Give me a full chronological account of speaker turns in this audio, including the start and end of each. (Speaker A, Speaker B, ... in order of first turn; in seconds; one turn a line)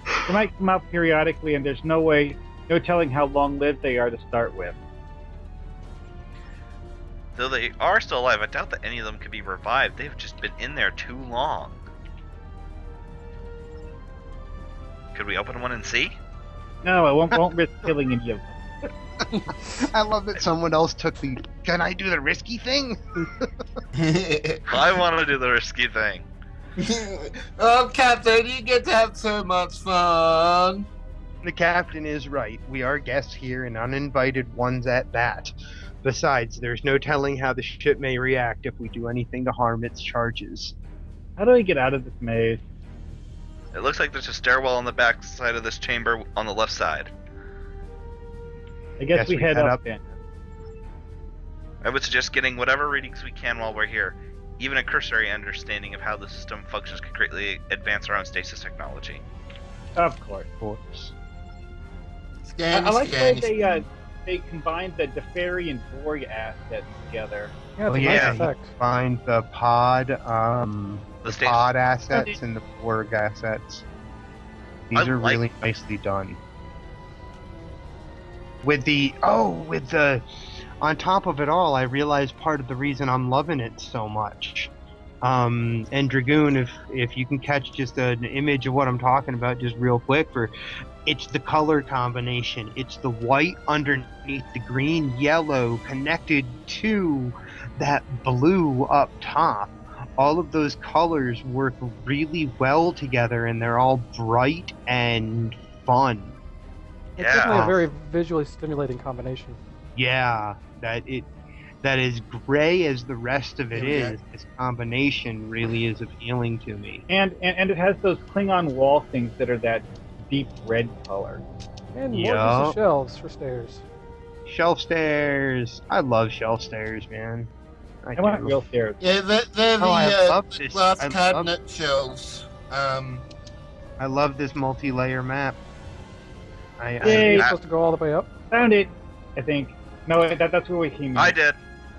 Speaker A: 0.2-4.8
Speaker B: 7.3-11.8
Speaker B: 15.1-16.1
Speaker A: 16.8-18.9
Speaker C: 19.8-23.6
Speaker D: 23.9-24.8
Speaker B: 24.7-26.2
Speaker D: 26.8-30.9
Speaker C: 31.4-40.7
Speaker A: 41.4-42.6
Speaker B: 43.7-47.1
Speaker A: 49.0-50.0
Speaker C: 49.1-49.8
Speaker B: 51.8-59.2
Speaker A: 60.0-60.5
Speaker C: 60.6-61.1
Speaker D: 62.4-63.8
Speaker A: 62.7-67.5
Speaker E: 67.8-68.7
Speaker C: 67.9-73.8
Speaker B: 68.0-68.4
Speaker B: 71.2-71.7
Speaker C: 74.9-76.4
Speaker B: 74.9-75.5
Speaker C: 78.6-80.2
Speaker C: 80.8-90.5
Speaker C: 91.0-106.4
Speaker E: 107.2-109.6
Speaker B: 107.2-107.6
Speaker C: 107.5-107.9
Speaker C: 110.0-111.3
Speaker C: 111.8-117.0
Speaker D: 113.7-114.2
Speaker A: 117.1-121.4
Speaker E: 121.9-123.8
Speaker C: 122.1-122.8
Speaker C: 124.5-127.5
Speaker C: 128.0-128.5
Speaker A: 128.2-129.0
Speaker D: 129.0-133.2
Speaker C: 129.8-131.5
Speaker C: 134.0-135.6
Speaker C: 136.8-137.5
Speaker A: 137.0-137.5
Speaker E: 137.1-138.3
Speaker B: 137.1-137.6
Speaker A: 138.5-141.3
Speaker B: 141.1-141.6